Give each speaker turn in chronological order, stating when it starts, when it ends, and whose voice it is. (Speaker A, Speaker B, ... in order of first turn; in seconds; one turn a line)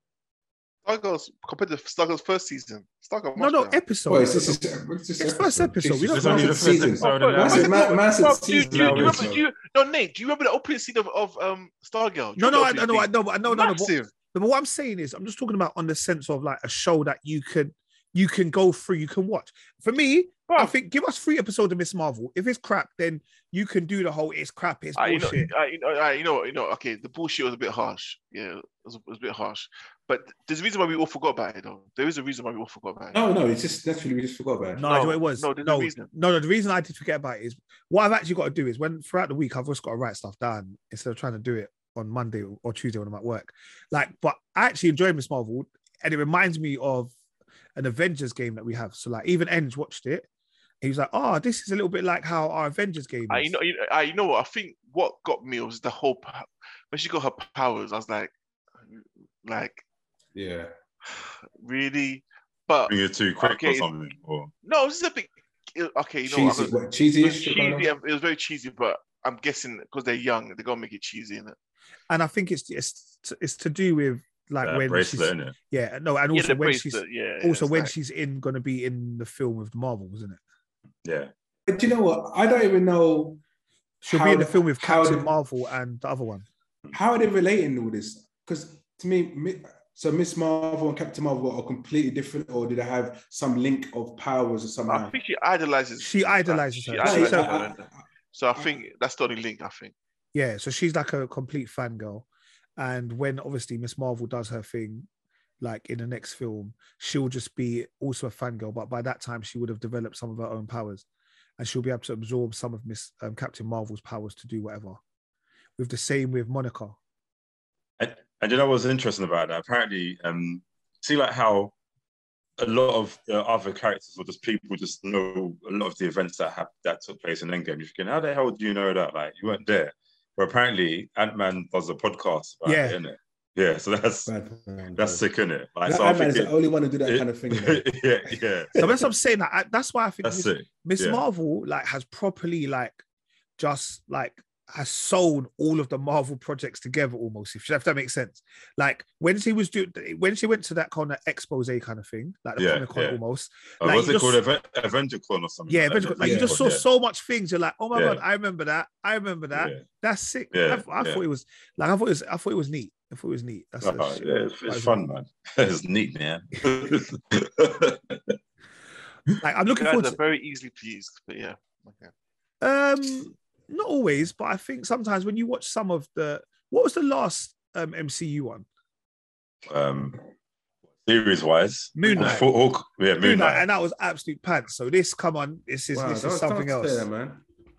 Speaker A: 0.8-3.8
Speaker B: 3.4-4.6
Speaker C: 4.1-9.4
Speaker B: 5.2-7.6
Speaker D: 6.1-7.8
Speaker A: 7.0-14.1
Speaker D: 8.7-9.3
Speaker B: 12.4-25.5
Speaker A: 20.5-20.7
Speaker A: 24.9-33.2
Speaker C: 33.1-34.8
Speaker B: 34.8-47.1
Speaker A: 34.8-36.1
Speaker B: 47.8-50.3
Speaker B: 50.8-53.5
Speaker A: 53.3-58.3
Speaker A: 58.9-59.8
Speaker C: 60.3-60.7
Speaker A: 61.1-63.9
Speaker D: 62.9-64.5
Speaker A: 64.6-71.5
Speaker C: 66.2-67.9
Speaker B: 72.1-80.4
Speaker D: 74.6-75.5
Speaker A: 76.3-77.9
Speaker D: 81.0-81.3
Speaker C: 81.7-83.4
Speaker B: 84.0-86.5
Speaker C: 84.0-85.3
Speaker C: 86.9-95.1
Speaker A: 94.9-99.9
Speaker B: 96.0-97.6
Speaker C: 97.0-97.9
Speaker B: 100.3-102.2
Speaker B: 102.8-105.1
Speaker B: 105.6-111.0
Speaker B: 111.6-115.0
Speaker B: 115.8-117.0
Speaker D: 118.0-121.7
Speaker D: 122.6-134.3
Speaker B: 132.6-133.0
Speaker C: 134.3-135.2
Speaker D: 134.9-136.5
Speaker C: 135.8-137.8
Speaker D: 137.0-138.8
Speaker C: 138.7-139.1
Speaker B: 138.8-143.0
Speaker D: 140.2-141.2
Speaker B: 143.6-154.4
Speaker D: 152.6-153.2
Speaker D: 153.8-156.8
Speaker B: 155.7-165.0
Speaker C: 156.2-156.6
Speaker D: 157.9-158.2
Speaker D: 159.5-159.8
Speaker D: 160.5-161.2
Speaker D: 163.8-168.3
Speaker B: 169.4-170.2
Speaker A: 169.7-172.1
Speaker B: 172.6-178.7
Speaker D: 179.7-180.2
Speaker D: 181.0-183.7
Speaker B: 181.9-182.5
Speaker B: 183.2-187.1
Speaker C: 185.9-187.4